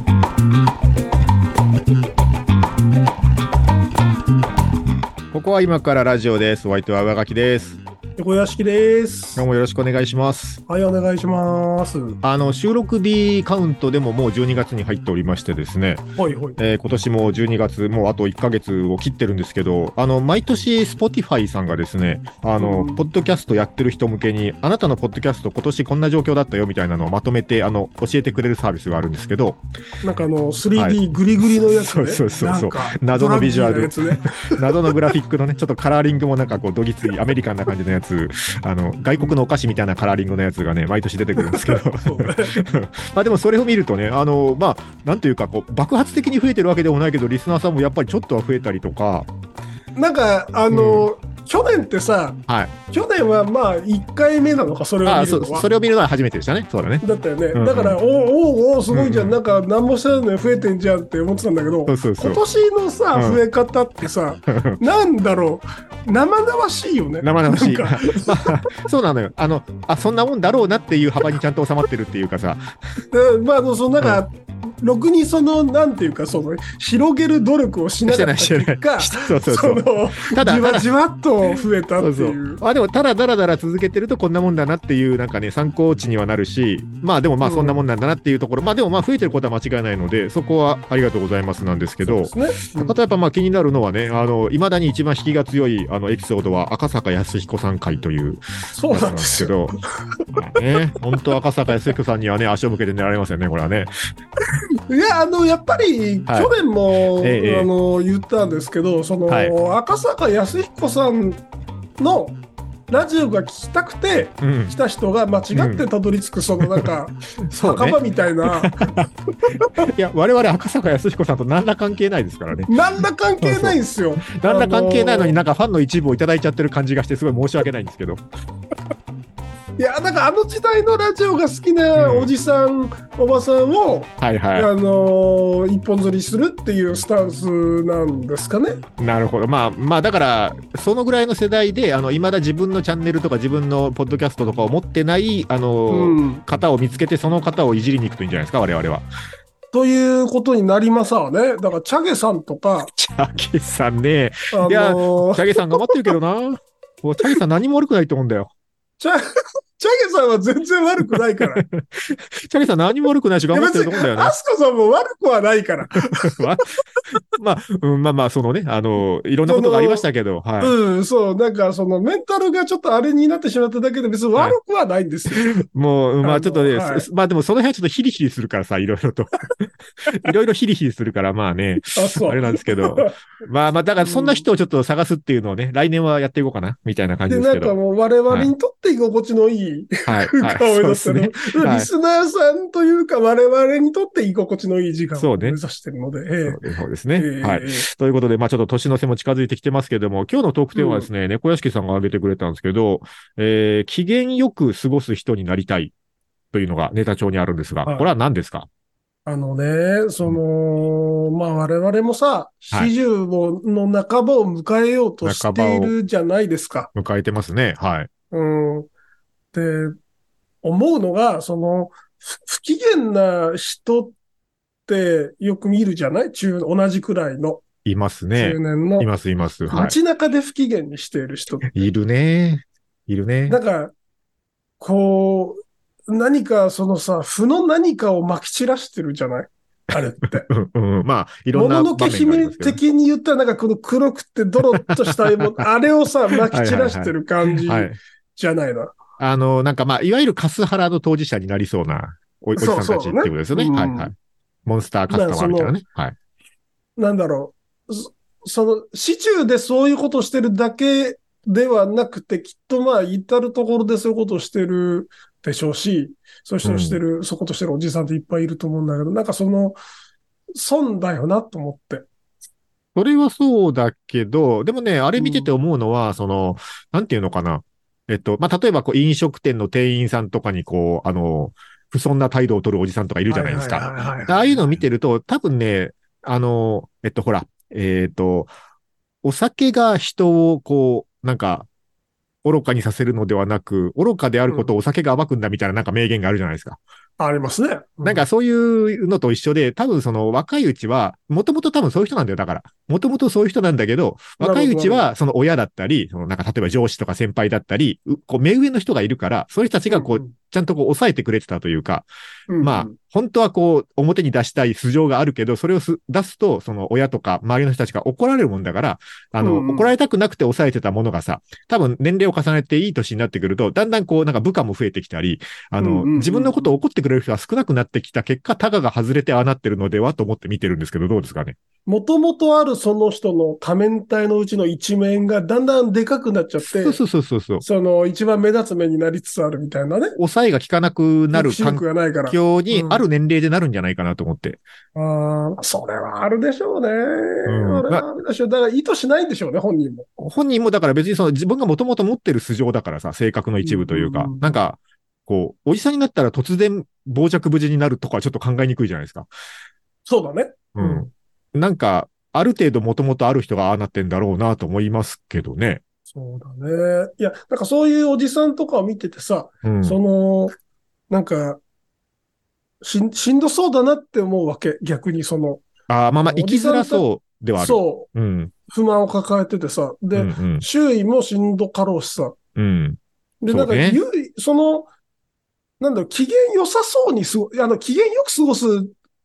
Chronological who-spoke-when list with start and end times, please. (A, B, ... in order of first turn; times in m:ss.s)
0:05.3-0:07.8 A
0:08.2-0:09.4 B
0:09.4-0:10.6 A
0:10.7-0:12.2 B
0:12.2-0:29.6 A
0:16.2-0:16.6 B
0:22.6-0:23.1 B
0:30.0-0:34.9 B
0:30.7-0:49.3 A
0:41.4-0:42.6 B
0:50.0-0:52.4 B
0:50.7-0:51.1 A
0:52.5-0:52.7 A
0:52.9-0:55.7 B
0:55.0-0:58.0 A
0:57.0-1:08.6 B
0:58.9-0:59.4 A
1:01.9-1:02.4 A
1:03.1-1:03.4 A
1:04.5-1:04.8 A
1:07.2-1:12.6 A
1:13.1-1:22.6 B
1:18.0-1:20.9 A
1:22.0-1:39.8 A
1:27.4-1:27.8 B
1:32.0-1:33.0 B
1:38.7-1:39.5 B
1:40.4-1:43.9 A
1:44.9-1:51.4 B
1:46.3-1:46.5 A
1:47.1-1:47.7 A
1:49.3-1:49.5 A
1:52.0-1:52.4 B
1:52.9-1:59.7 B
1:54.2-1:54.7 A
1:55.5-1:55.8 A
1:56.6-1:56.9 A
1:57.5-1:59.1 A
1:59.6-2:02.7 A
2:02.7-2:05.4 B
2:03.4-2:08.2 A
2:09.8-2:18.8 B
2:12.0-2:12.3 A
2:14.2-2:14.7 A
2:19.0-2:29.0 A
2:25.9-2:26.4 B
2:29.7-2:32.9 B
2:32.9-2:38.5 A
2:34.5-2:36.1 B
2:39.8-2:41.6 B
2:41.6-2:44.3 A
2:43.5-2:46.4 B
2:46.2-2:46.7 A
2:47.4-2:50.7 A
2:49.4-2:50.0 B
2:50.6-2:55.5 B
2:55.3-3:07.8 A
2:56.2-2:57.0 B
3:01.9-3:03.1 B
3:04.0-3:04.4 B
3:07.3-3:16.6 B
3:10.0-3:11.9 A
3:15.2-3:15.6 A
3:16.5-3:25.9 A
3:17.2-3:17.9 B
3:20.7-3:21.1 B
3:26.5-3:28.7 A
3:29.2-3:36.9 B
3:35.2-3:35.9 A
3:36.9-3:38.1 A
3:38.3-3:38.9 B
3:39.5-3:40.0 B
3:40.6-3:44.2 B
3:44.9-3:47.6 B
3:47.8-3:50.0 A
3:48.4-3:49.1 B
3:49.7-3:51.7 B
3:51.6-3:53.6 A
3:53.5-3:53.9 B
3:54.8-4:00.5 B
4:00.4-4:02.8 A
4:01.5-4:08.9 B
4:06.5-4:08.0 A
4:09.2-4:14.1 A
4:12.6-4:14.1 B
4:14.6-4:16.2 A
4:15.1-4:15.7 B
4:17.0-4:29.8 B
4:26.6-4:27.0 A
4:30.6-4:32.0 B
4:32.9-4:48.5 A
4:35.2-4:35.5 B
4:43.3-4:44.6 B
4:49.2-4:51.7 A
4:52.4-4:56.8 A
4:57.2-4:58.2 B
4:58.0-5:12.1 A
5:04.4-5:05.1 B
5:09.9-5:10.3 B
5:12.5-5:13.0 B
5:12.6-5:31.6 A
5:19.4-5:19.9 B
5:25.8-5:26.7 B
5:31.8-5:37.0 B
5:36.6-5:37.6 A
5:37.6-5:40.2 B
5:40.2-5:44.6 A
5:41.3-5:43.0 B
5:44.9-5:50.1 B
5:47.4-5:48.0 A
5:50.2-5:59.3 A
5:53.6-5:54.5 B
6:00.1-6:01.1 B
6:00.7-6:05.8 A
6:06.1-6:10.5 B
6:09.6-6:10.0 A
6:11.1-6:11.6 B
6:12.8-6:15.6 B
6:15.9-6:18.5 A
6:16.2-6:17.0 B
6:17.6-6:18.1 B
6:18.7-6:22.4 B
6:20.2-6:20.6 A
6:22.6-6:23.0 A
6:23.4-6:24.9 B
6:23.5-6:24.0 A
6:25.8-6:28.9 B